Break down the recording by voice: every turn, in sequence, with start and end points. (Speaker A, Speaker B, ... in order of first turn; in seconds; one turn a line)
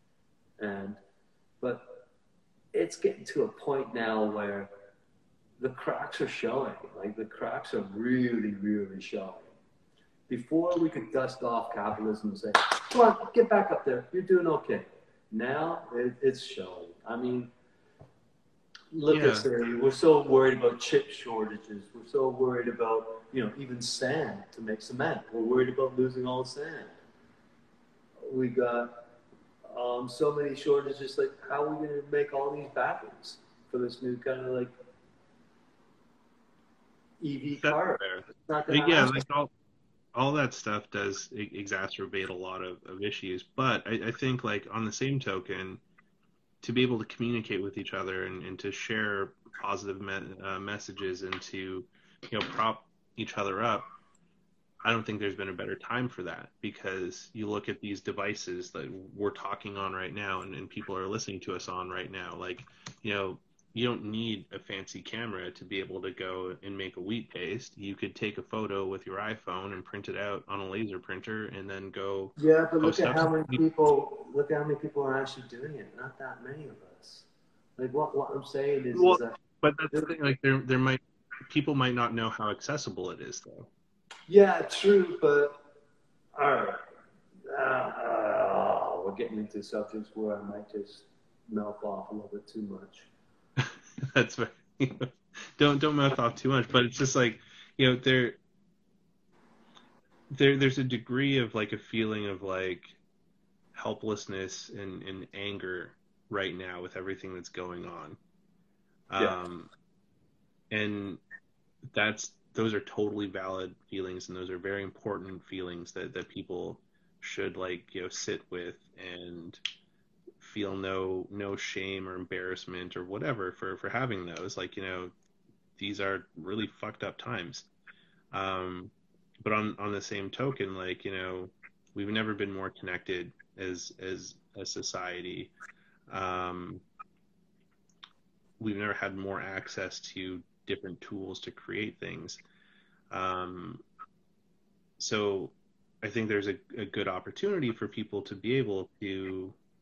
Speaker A: 0.6-1.0
Speaker A: 1.6-1.9
Speaker A: 2.7-4.7
Speaker A: 5.6-9.5
Speaker A: 10.3-17.5
Speaker A: 18.9-26.9
Speaker B: 19.1-19.5
Speaker A: 28.2-28.9
Speaker A: 29.7-34.7
Speaker A: 37.2-39.2
Speaker B: 37.6-39.5
Speaker B: 40.1-45.8
Speaker B: 46.6-53.9
Speaker B: 54.8-73.6
Speaker A: 72.4-77.2
Speaker A: 77.8-79.4
Speaker B: 78.9-83.7
Speaker A: 84.3-85.6
Speaker A: 86.3-86.8
Speaker A: 87.5-93.1
Speaker B: 93.6-98.4
Speaker B: 100.3-103.0
Speaker B: 103.7-108.2
Speaker B: 109.1-109.7
Speaker B: 110.7-111.2
Speaker B: 111.9-119.6
Speaker B: 120.4-125.1
Speaker B: 125.8-127.7
Speaker B: 128.3-135.5
Speaker B: 136.1-136.8
Speaker B: 138.6-142.4
Speaker B: 143.1-143.8
Speaker B: 145.0-149.6